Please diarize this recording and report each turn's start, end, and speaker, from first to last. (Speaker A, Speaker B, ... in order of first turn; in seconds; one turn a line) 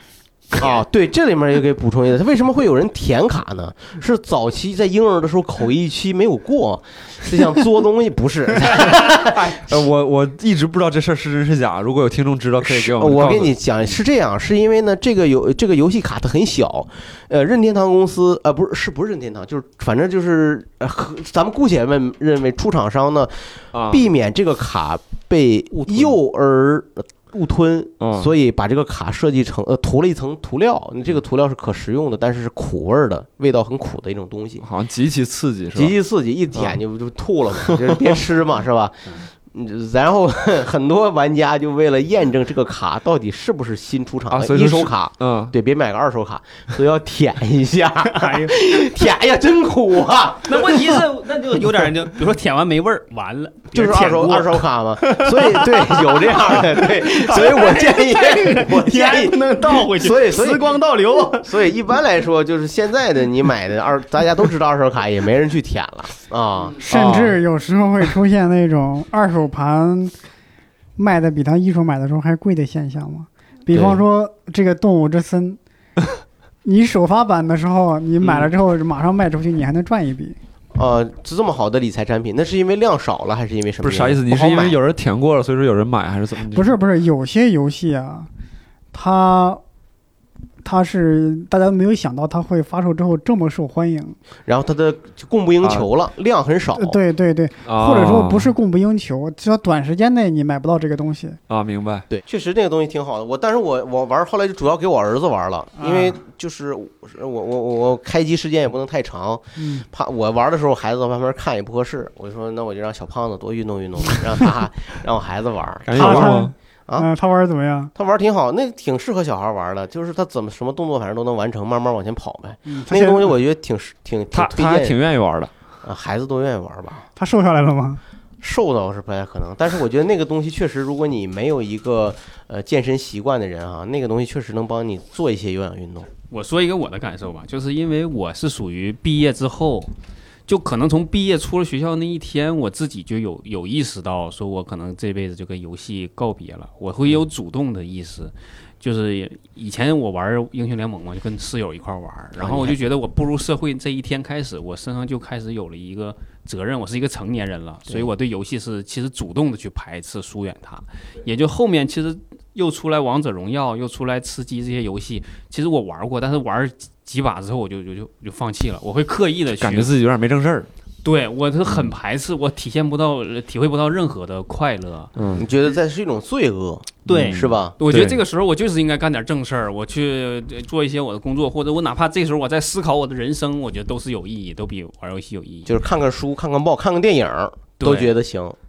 Speaker A: 0.6-9.8
Speaker B: 9.0-13.6
Speaker A: 12.6-34.6
Speaker B: 23.7-24.0
Speaker B: 28.0-28.3
Speaker B: 34.6-35.9
Speaker A: 35.7-51.0
Speaker B: 37.6-38.1
Speaker B: 44.3-45.5
Speaker C: 48.0-48.5
Speaker C: 50.5-61.6
Speaker A: 53.7-60.8
Speaker A: 61.4-66.8
Speaker D: 66.8-70.1
Speaker B: 66.8-67.4
Speaker D: 71.0-75.6
Speaker A: 73.7-74.0
Speaker D: 76.6-80.3
Speaker B: 78.2-78.5
Speaker A: 80.7-84.8
Speaker B: 83.8-86.7
Speaker D: 86.5-88.3
Speaker D: 88.9-89.6
Speaker D: 90.6-94.2
Speaker A: 94.5-97.0
Speaker D: 96.8-101.4
Speaker B: 97.6-98.5
Speaker B: 101.5-102.1
Speaker A: 102.1-117.1
Speaker D: 105.8-106.2
Speaker D: 109.6-109.8
Speaker B: 115.8-116.5
Speaker D: 115.9-117.9
Speaker A: 117.9-125.0
Speaker D: 122.7-123.3
Speaker B: 124.3-125.5
Speaker A: 125.8-127.0
Speaker D: 127.2-128.0
Speaker A: 128.4-136.1
Speaker C: 136.3-139.9
Speaker C: 140.5-169.9
Speaker A: 152.3-152.8
Speaker B: 169.6-170.7
Speaker C: 171.0-175.1
Speaker B: 175.2-175.4
Speaker A: 175.3-177.8
Speaker C: 177.1-185.7
Speaker B: 177.1-178.2
Speaker A: 185.7-188.6
Speaker C: 187.8-188.1